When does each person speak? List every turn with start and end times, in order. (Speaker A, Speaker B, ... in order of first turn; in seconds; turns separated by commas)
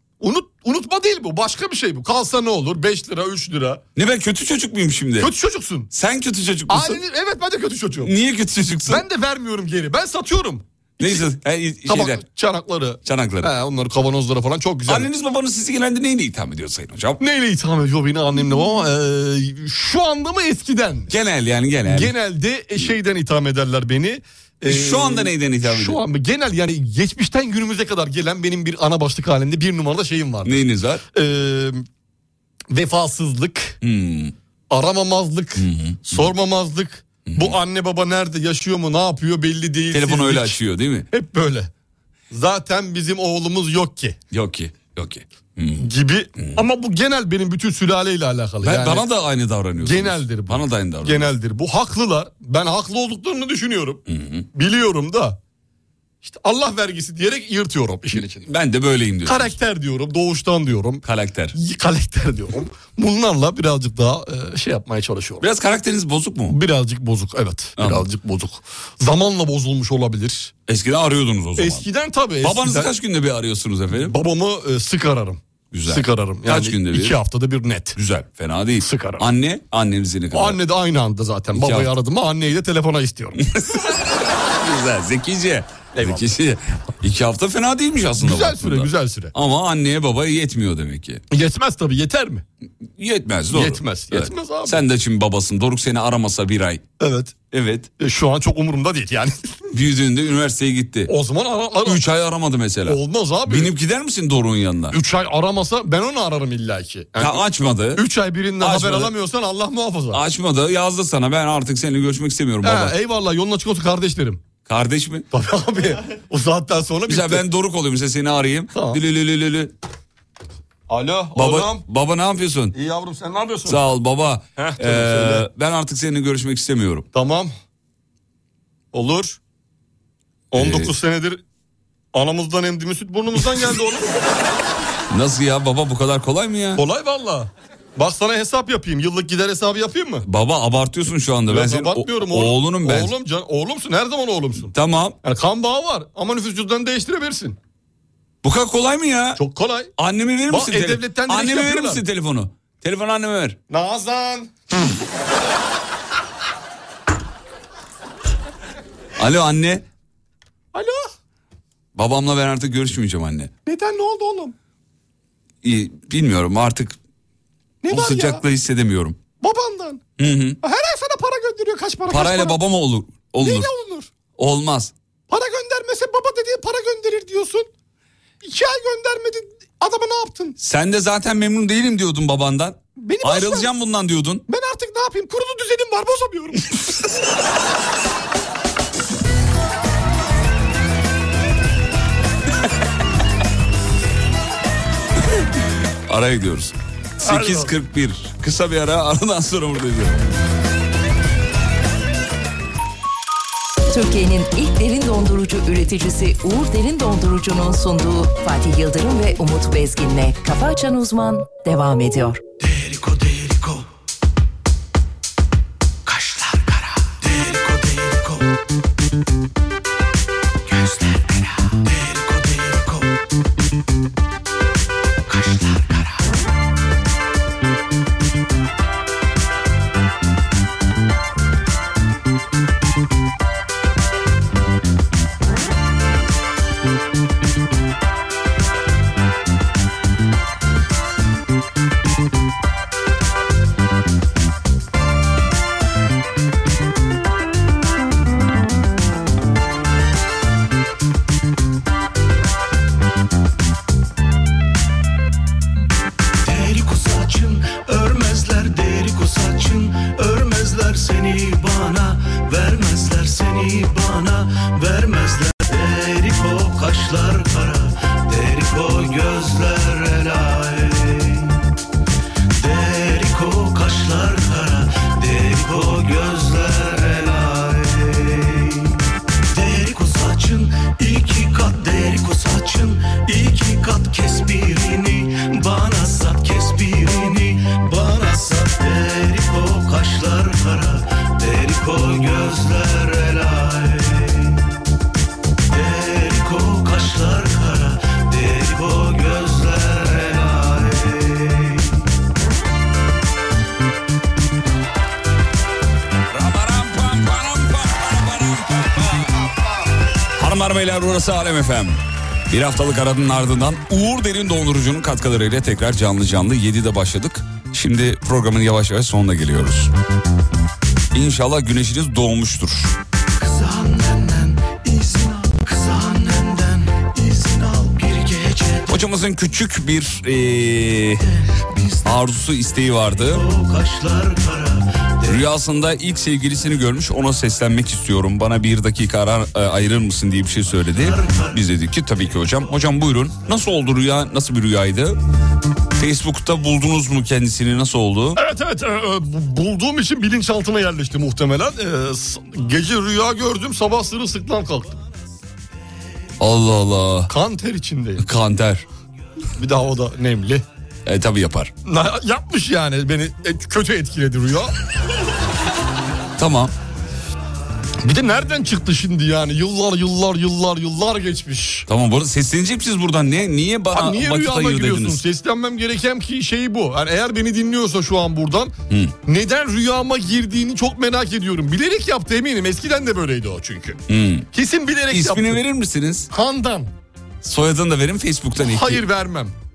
Speaker A: 0.2-3.8, Speaker B: 4.0-5.3, Speaker A: 5.2-5.9, Speaker B: 5.9-7.0, Speaker A: 6.7-8.1, Speaker B: 8.0-9.0, Speaker A: 8.9-11.2, Speaker B: 11.0-12.2, Speaker A: 11.9-15.1, Speaker B: 13.1-13.5, Speaker B: 14.9-17.2, Speaker A: 17.2-21.1, Speaker B: 21.1-22.1, Speaker A: 21.9-31.9, Speaker B: 24.7-26.0, Speaker B: 30.4-31.0, Speaker A: 32.7-33.8, Speaker B: 33.8-34.3, Speaker A: 34.7-40.6, Speaker B: 35.6-36.3, Speaker B: 37.3-37.6, Speaker B: 39.9-41.1, Speaker A: 41.1-41.7, Speaker A: 42.3-44.2, Speaker B: 44.3-46.6, Speaker A: 45.8-49.1, Speaker B: 48.6-51.3, Speaker A: 49.8-54.0, Speaker B: 54.1-54.5, Speaker A: 54.5-55.4, Speaker A: 56.2-58.5, Speaker B: 58.1-59.6, Speaker A: 59.2-65.5, Speaker B: 61.0-61.5, Speaker B: 65.4-66.6, Speaker A: 66.5-70.5, Speaker B: 67.8-68.0, Speaker B: 70.7-71.8, Speaker A: 71.6-72.9, Speaker B: 72.4-74.2, Speaker A: 74.0-78.0, Speaker B: 75.7-77.2, Speaker B: 78.0-80.6, Speaker A: 78.8-79.3, Speaker A: 80.3-83.4, Speaker B: 81.5-81.9, Speaker B: 83.5-91.2, Speaker A: 86.0-86.3, Speaker A: 88.2-89.3, Speaker A: 91.3-92.4, Speaker B: 93.0-96.8, Speaker A: 93.5-94.8, Speaker A: 97.0-97.3, Speaker B: 97.5-97.9, Speaker A: 98.0-99.5, Speaker B: 99.7-101.1, Speaker A: 101.1-102.0, Speaker B: 101.8-105.0, Speaker A: 102.9-103.7, Speaker A: 104.9-110.2, Speaker B: 107.2-108.0, Speaker B: 108.6-109.1, Speaker B: 110.1-113.0, Speaker A: 112.6-114.4, Speaker B: 114.7-115.3, Speaker A: 115.3-117.4, Speaker B: 117.1-119.7, Speaker A: 118.7-119.0, Speaker A: 120.9-121.8, Speaker B: 121.3-122.8, Speaker A: 122.7-123.8, Speaker B: 123.7-127.1, Speaker A: 124.6-125.5, Speaker A: 127.1-127.5, Speaker A: 128.9-129.4, Speaker A: 130.5-131.4, Speaker B: 130.6-130.9, Speaker A: 132.1-134.2, Speaker B: 135.1-136.8, Speaker A: 136.8-140.2, Speaker B: 140.2-143.1, Speaker A: 141.5-144.7, Speaker B: 144.7-145.2, Speaker A: 145.2-147.6, Speaker B: 148.4-149.4, Speaker A: 149.4-149.9, Speaker B: 150.0-153.6, Speaker A: 150.5-152.0, Speaker A: 153.7-154.5, Speaker B: 159.2-159.8, Speaker A: 160.7-161.1, Speaker B: 161.9-163.5, Speaker A: 163.7-164.5, Speaker B: 165.6-167.0, Speaker A: 167.8-168.4, Speaker B: 167.9-169.2, Speaker A: 169.4-170.0, Speaker B: 170.2-170.6, Speaker A: 170.6-172.6, Speaker B: 172.1-173.7, Speaker A: 173.4-174.1, Speaker B: 174.4-174.9, Speaker A: 175.3-177.7, Speaker A: 178.4-180.6, Speaker B: 180.6-184.4, Speaker A: 183.0-183.7, Speaker A: 184.5-187.0, Speaker B: 196.1-200.2, Speaker A: 197.2-197.7, Speaker C: 203.9-212.4, Speaker D: 212.6-213.8, Speaker D: 216.1-218.4, Speaker D: 220.7-223.1, Speaker D: 225.3-226.1, Speaker D: 256.4-271.6, Speaker D: 272.6-279.0, Speaker D: 279.5-294.6, Speaker D: 295.7-302.0, Speaker B: 306.3-309.4, Speaker B: 310.4-319.9, Speaker B: 321.1-323.0, Speaker D: 323.4-329.0, Speaker B: 328.9-331.2, Speaker D: 331.2-332.2, Speaker B: 332.1-333.4, Speaker D: 333.0-335.4, Speaker B: 335.2-345.2, Speaker D: 340.9-341.6, Speaker B: 346.0-348.4, Speaker A: 348.4-355.0, Speaker B: 356.4-357.3, Speaker A: 357.3-358.2, Speaker B: 358.2-358.9, Speaker A: 359.6-360.6, Speaker B: 361.1-361.7, Speaker A: 361.9-364.7, Speaker B: 366.4-366.7, Speaker A: 368.0-371.9, Speaker B: 371.9-375.2, Speaker A: 373.9-378.7, Speaker A: 379.3-384.0, Speaker B: 384.1-384.5, Speaker A: 384.5-385.6, Speaker B: 385.1-386.3, Speaker A: 386.3-386.9, Speaker B: 387.4-389.0, Speaker A: 388.6-389.5